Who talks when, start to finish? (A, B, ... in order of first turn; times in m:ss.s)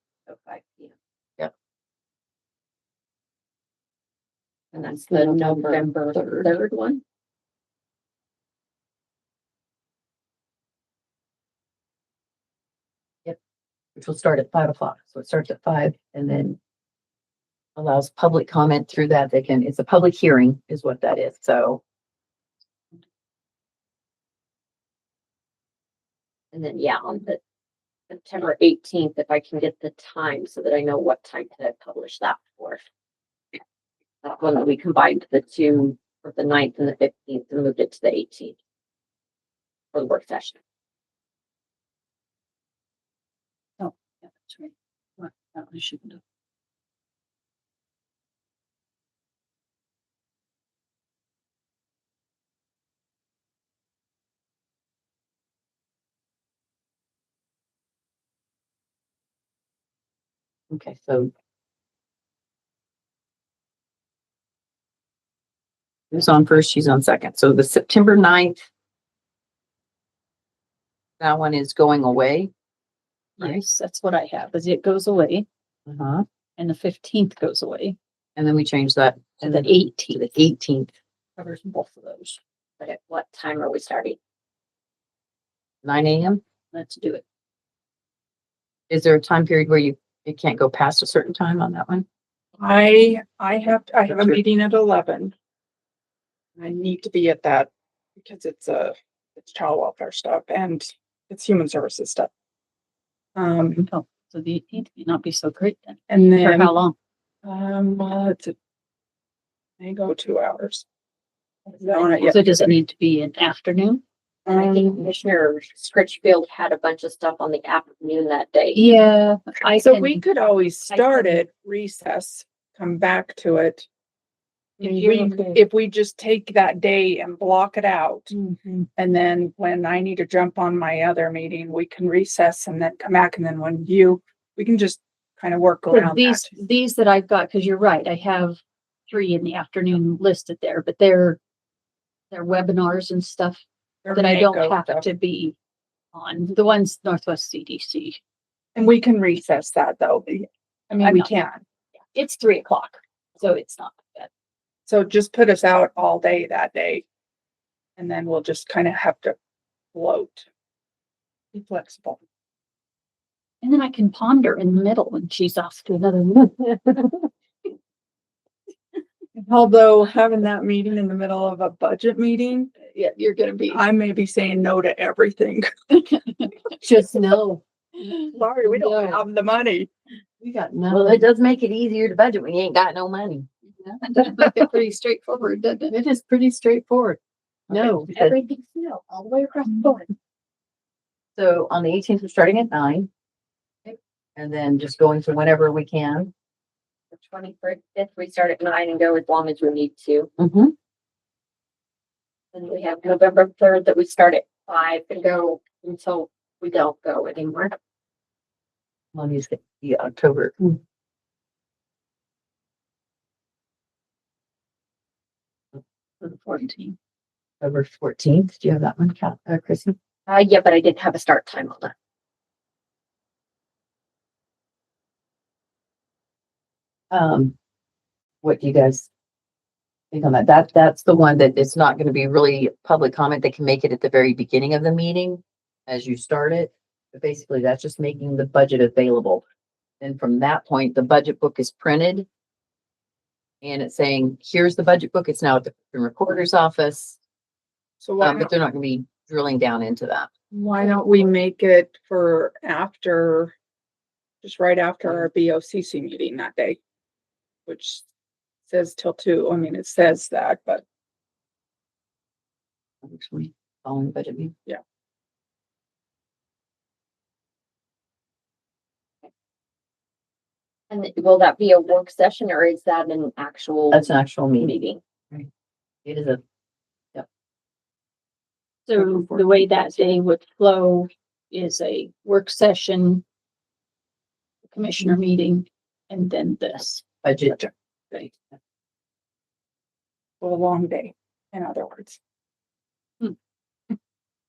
0:00.3-0:00.9 A
0:04.7-0:07.0 A
0:05.1-0:06.5 B
0:14.0-0:16.6 B
0:17.8-0:21.8 B
0:26.5-0:27.4 A
0:28.1-0:32.8 A
0:34.2-0:38.6 A
0:39.9-0:40.6 A
0:43.8-0:46.2 C
1:00.7-1:01.3 B
1:06.1-1:08.6 B
1:11.2-1:12.5 B
1:13.4-1:15.4 C
1:15.9-1:16.2 B
1:16.6-1:18.0 C
1:18.4-1:20.9 B
1:19.4-1:20.3 C
1:21.4-1:22.4 C
1:22.8-1:24.2 A
1:25.8-1:26.4 B
1:26.7-1:27.2 C
1:28.9-1:32.1 B
1:32.6-1:35.3 D
1:34.1-1:34.4 B
1:36.6-1:42.3 D
1:43.4-1:43.9 D
1:43.8-1:46.9 C
1:46.1-1:46.7 D
1:47.4-1:48.6 D
1:49.8-1:50.8 D
1:51.7-1:52.7 D
1:52.2-1:54.0 C
1:54.5-1:55.0 D
1:54.5-1:58.9 A
1:58.7-2:00.2 C
1:59.7-2:03.9 D
2:00.9-2:01.4 C
2:04.8-2:05.6 C
2:04.8-2:08.3 D
2:08.3-2:08.9 C
2:09.0-2:16.5 D
2:15.9-2:21.4 C
2:22.3-2:25.6 C
2:24.0-2:25.1 D
2:26.1-2:28.2 C
2:28.8-2:31.6 D
2:30.9-2:31.3 C
2:32.1-2:34.3 C
2:34.8-2:37.0 D
2:38.0-2:39.4 D
2:39.9-2:40.5 D
2:41.5-2:42.2 D
2:43.6-2:47.2 C
2:49.3-2:52.7 D
2:52.8-2:53.8 C
2:53.7-2:55.7 D
2:56.1-2:59.1 C
2:58.3-2:59.9 D
3:00.4-3:01.2 C
3:00.8-3:03.5 B
3:03.7-3:06.0 C
3:05.9-3:07.2 B
3:07.7-3:08.3 B
3:07.7-3:08.1 C
3:08.1-3:10.1 A
3:11.4-3:13.1 B
3:14.4-3:16.3 B
3:17.1-3:20.3 A
3:20.4-3:20.7 B
3:22.5-3:27.8 A
3:29.1-3:30.8 B
3:36.2-3:37.0 C
3:37.6-3:40.0 B
3:40.3-3:41.9 A
3:47.1-3:47.5 B
3:48.4-3:49.1 B
3:50.1-3:59.4 B
4:00.0-4:02.2 B
4:03.6-4:07.2 B
4:08.0-4:08.5 D
4:08.2-4:10.3 B
4:10.5-4:13.5 D
4:14.4-4:16.8 D
4:17.6-4:18.1 D
4:18.7-4:20.8 D
4:23.0-4:24.6 B
4:30.9-4:35.0 A
4:33.9-4:34.7 B
4:36.0-4:36.4 B
4:38.9-4:43.2 C
4:39.0-4:39.5 B
4:44.7-4:48.4 C
4:47.2-4:47.7 B
4:50.4-4:52.2 D